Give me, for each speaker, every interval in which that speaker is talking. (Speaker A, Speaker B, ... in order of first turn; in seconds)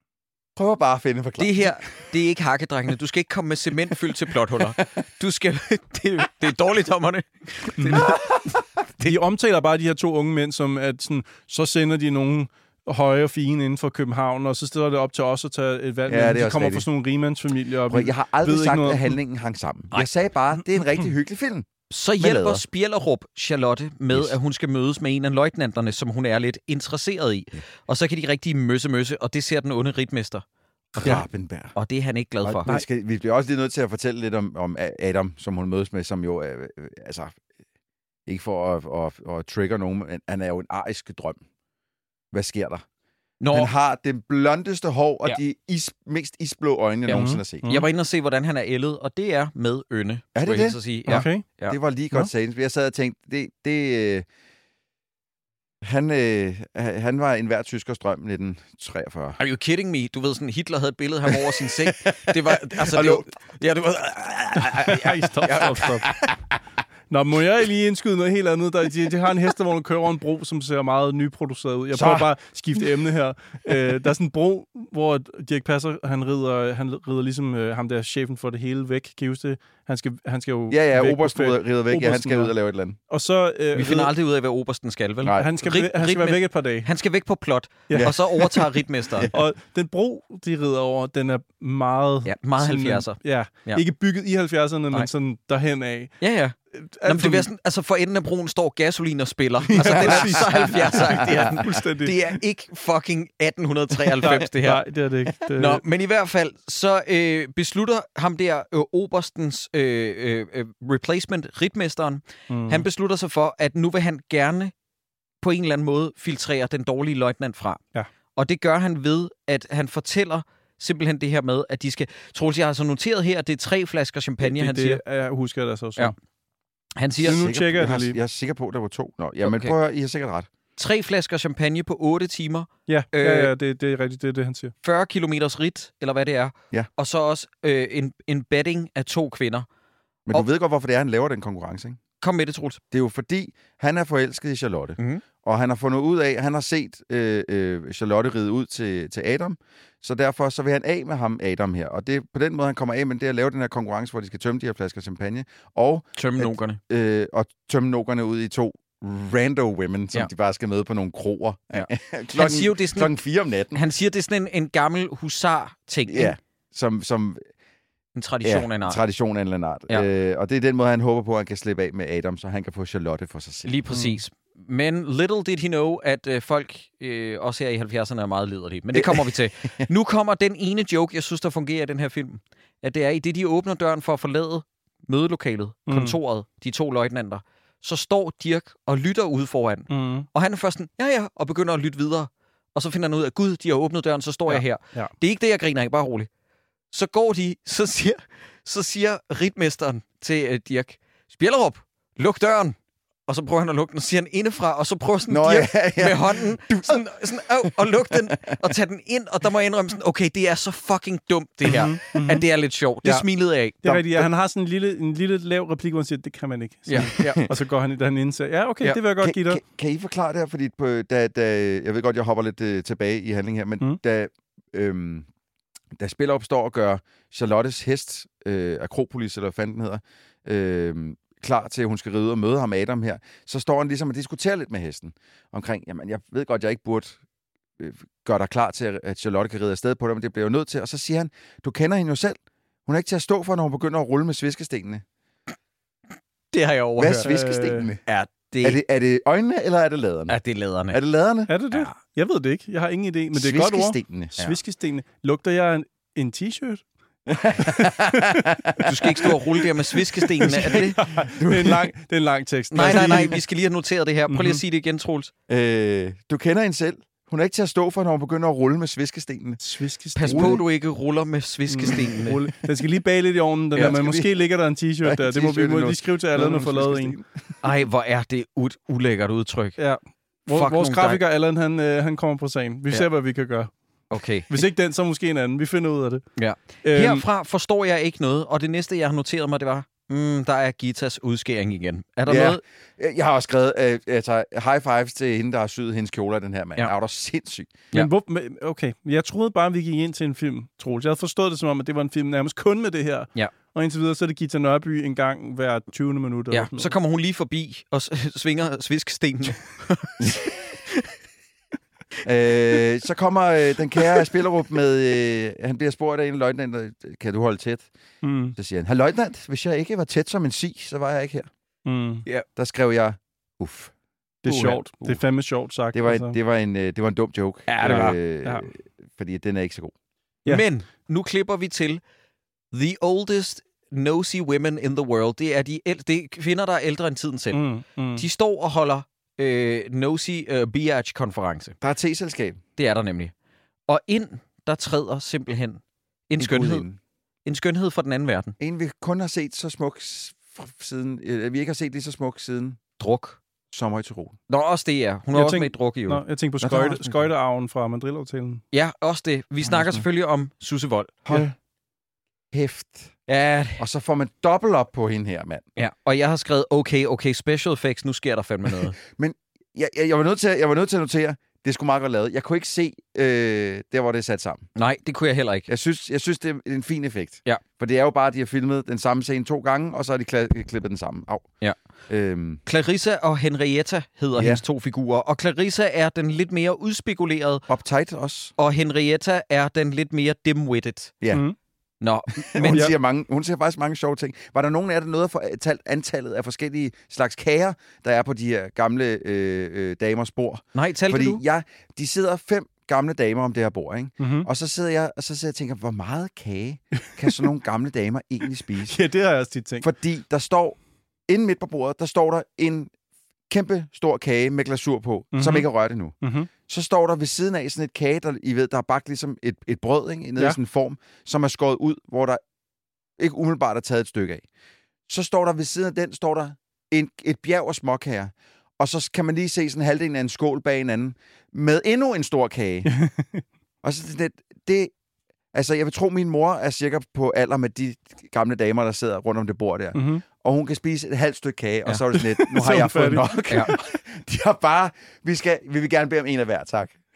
Speaker A: 0.6-1.7, 7.9-8.6, 16.1-16.9, 17.9-22.6, 31.0-31.7, 32.4-37.4, 38.3-41.4, 42.3-42.8, 43.5-47.6, 50.3-54.2, 55.8-59.4, 61.3-63.3, 65.9-66.3, 71.9-72.3, 80.7-83.0, 85.2-85.5, 87.9-88.2, 89.1-89.4, 99.7-101.5, 127.2-130.5, 140.3-142.0, 142.9-163.8, 166.1-167.4, 168.4-173.8, 178.9-179.9, 205.3-208.6, 216.9-217.5, 219.2-225.3, 225.9-237.2, 237.8-245.0, 247.0-248.0, 248.6-250.4, 250.9-251.5, 253.3-254.3, 257.3-259.3, 260.4-261.9, 262.8-263.2, 265.5-269.6, 270.3-270.6, 273.7-274.4, 275.0-277.3, 292.3-297.8, 310.2-310.4, 312.2-317.9, 318.6-321.5, 322.5-323.9, 324.4-325.2, 325.9-329.9, 341.8-342.6, 346.4-347.0, 348.6-352.8, 353.7-354.4, 356.6-357.1, 359.6-360.0, 361.2-361.5, 362.5-363.1, 363.8-365.7, 369.0-374.6, 375.7-381.5, 382.1-382.6, 384.4-384.6, 387.7-388.5, 392.4-409.0, 409.8-412.9, 413.5-416.1, 416.7-422.4, 423.2-424.4, 425.1-432.9, 433.8-434.9, 435.5-447.0
Speaker B: 1.4-8.3, 21.9-30.4, 30.9-31.2, 31.7-32.7, 43.4-43.7, 47.6-51.8, 59.4-66.0, 83.7-89.3, 92.2-93.8, 96.2-104.8, 105.5-114.7, 115.4-117.8, 118.3-125.0, 127.0-127.4, 129.4-129.7, 130.8-133.5, 134.8-139.7, 142.2-142.8, 145.0-145.2, 156.2-156.8, 161.7-163.1, 163.7-166.3, 168.1-169.0, 173.7-196.3, 196.9-202.8, 203.3-214.2, 216.9-217.5, 246.5-247.3, 248.1-248.8, 250.3-251.0, 258.8-261.0, 262.7-265.3, 270.1-272.4, 277.6-279.8, 280.5-281.2, 284.1-284.5, 286.4-292.6, 306.5-310.3, 327.7-328.1, 330.4-332.0, 332.7-337.6, 338.1-341.8, 342.8-343.3, 343.9-346.8, 347.4-348.5, 353.0-353.4, 354.5-356.2, 358.7-361.2, 363.3-363.8, 365.8-368.9, 374.7-375.7, 382.6-387.6, 388.6-391.1, 392.0-392.8, 400.7-401.4
Speaker C: 7.8-8.1, 9.0-19.2, 47.1-47.9, 51.1-51.4, 64.7-66.1, 67.1-82.5, 83.1-84.1, 85.3-86.9, 87.9-88.6, 89.3-96.2, 96.7-97.5, 99.7-102.2, 104.2-105.8, 112.5-112.8, 124.4-126.1, 127.2-128.2, 132.9-134.7, 173.9-174.2, 185.9-186.2, 189.9-190.3, 194.5-195.1, 211.6-212.4, 213.8-219.6, 247.2-247.9, 251.5-256.8, 257.6-258.4, 260.4-263.4, 264.3-264.6, 269.6-270.6, 271.7-277.2, 279.8-283.7, 284.5-286.2, 286.8-287.2, 297.9-306.9, 318.2-318.5, 321.8-322.2, 324.4-326.4, 327.8-328.7, 337.5-338.2, 355.3-358.6, 404.2-404.5, 407.1-407.5, 408.9-409.9, 415.3-415.7, 416.2-416.5, 432.8-433.4, 439.9-440.2, 442.1-443.8